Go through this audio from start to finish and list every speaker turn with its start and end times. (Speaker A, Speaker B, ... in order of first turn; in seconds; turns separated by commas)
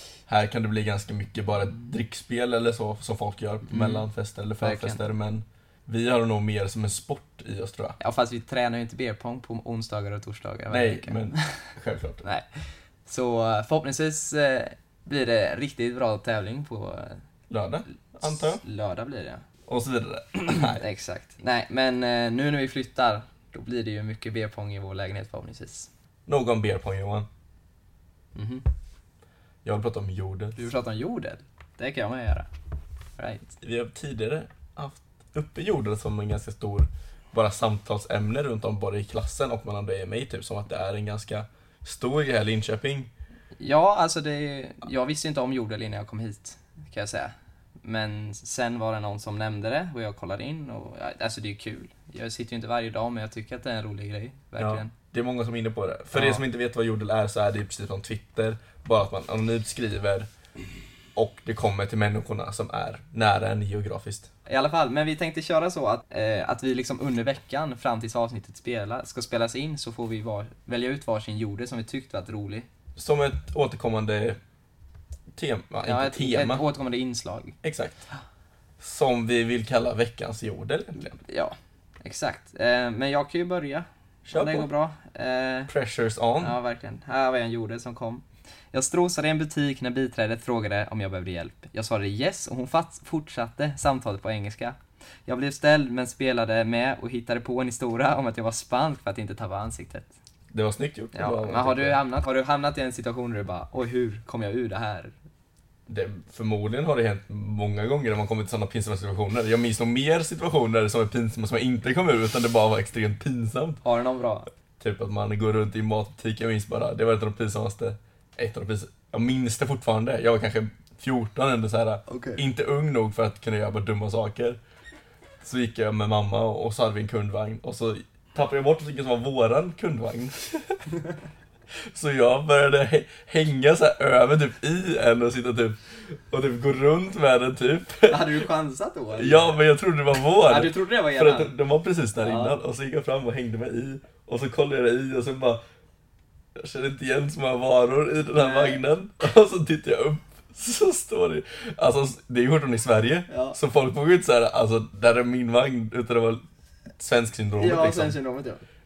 Speaker A: 0.3-8.0, Speaker B: 3.7-4.0, Speaker B: 4.6-5.0, Speaker B: 8.0-11.7, Speaker A: 10.7-12.2, Speaker B: 13.1-17.2, Speaker A: 17.5-18.6, Speaker B: 18.2-19.4, Speaker A: 19.7-20.8, Speaker B: 20.5-25.9, Speaker A: 26.3-27.3, Speaker B: 28.3-28.6, Speaker A: 29.6-30.6, Speaker B: 30.6-32.5, Speaker B: 33.2-33.5, Speaker A: 33.6-43.1, Speaker B: 43.6-54.9, Speaker A: 54.6-60.3, Speaker B: 56.1-56.4, Speaker A: 61.1-64.3, Speaker B: 64.5-72.7, Speaker A: 73.0-74.4, Speaker A: 75.3-76.6, Speaker B: 75.8-77.5, Speaker A: 77.6-78.0, Speaker A: 78.8-81.2, Speaker B: 81.2-85.7, Speaker A: 84.2-84.7, Speaker A: 85.7-86.6, Speaker B: 86.4-100.1, Speaker A: 100.5-102.0, Speaker B: 101.1-105.1, Speaker A: 105.9-113.8, Speaker B: 113.8-114.5, Speaker A: 114.8-124.6, Speaker B: 122.1-122.4, Speaker A: 125.4-130.8, Speaker A: 131.8-138.4, Speaker B: 138.1-139.6, Speaker A: 139.1-145.6, Speaker B: 140.4-141.5, Speaker B: 142.2-142.6, Speaker A: 146.6-156.4, Speaker B: 148.3-148.8, Speaker B: 153.3-153.6, Speaker A: 157.0-158.2, Speaker B: 157.6-158.6